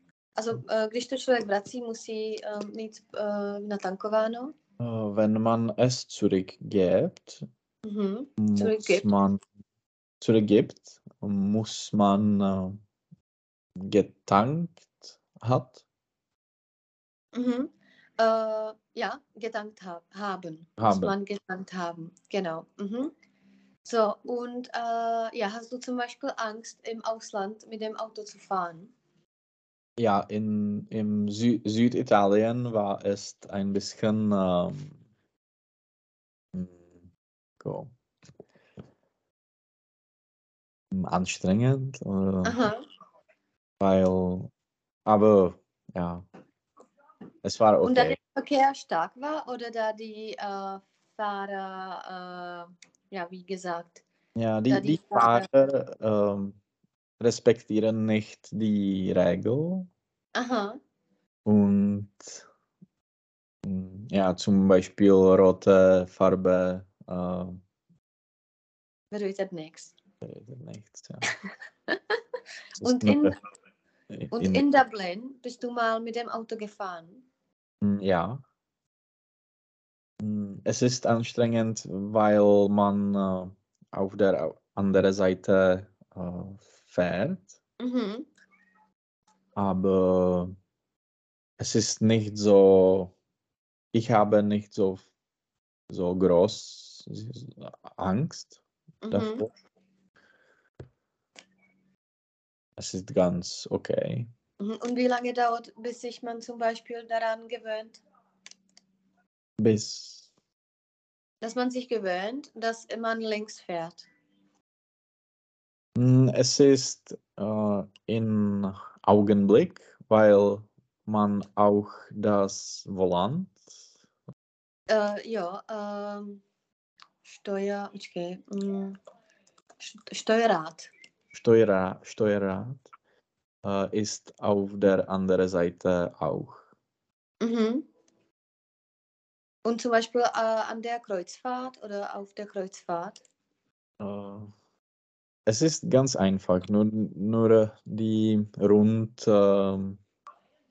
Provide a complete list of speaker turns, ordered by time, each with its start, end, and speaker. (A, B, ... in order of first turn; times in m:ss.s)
0:00.4-0:04.5 A
0:04.8-0:07.5 B
0:07.8-0:09.2 A
0:08.4-0:09.4 B
0:10.2-0:12.8 B
0:13.8-0:15.8 B
0:17.3-0:23.1 A
0:20.8-0:21.2 B
0:23.8-0:28.9 A
0:30.0-0:35.0 B
0:36.5-0:36.9 B
0:37.6-0:37.9 B
0:40.9-0:42.7 B
0:42.4-0:42.8 A
0:43.8-0:44.5 B
0:45.1-0:46.3 B
0:47.4-0:48.2 B
0:47.8-0:54.0 A
0:54.4-0:56.6 B
0:54.7-0:55.5 A
0:57.2-0:59.9 B
1:00.4-1:00.8 A
1:01.4-1:02.4 B
1:03.6-1:07.6 B
1:09.1-1:09.9 A
1:10.2-1:11.3 B
1:11.9-1:12.2 A
1:12.8-1:13.3 B
1:12.8-1:13.4 A
1:14.1-1:14.6 B
1:14.3-1:17.2 A
1:17.8-1:18.4 B
1:20.2-1:27.6 B
1:27.8-1:28.3 A
1:29.6-1:30.5 B
1:31.6-1:33.1 B
1:33.9-1:35.1 B
1:35.9-1:38.6 B
1:39.0-1:39.5 A
1:39.1-1:39.5 B
1:42.8-1:44.3 B
1:44.6-1:48.0 A
1:49.6-1:50.3 B
1:51.4-1:54.1 A
1:56.0-2:03.6 B
2:04.9-2:06.4 A
2:07.3-2:09.0 A
2:09.8-2:10.9 A
2:11.3-2:12.8 B
2:13.6-2:16.7 B
2:17.4-2:17.8 A
2:19.6-2:23.2 A
2:24.0-2:24.5 B
2:25.5-2:30.0 B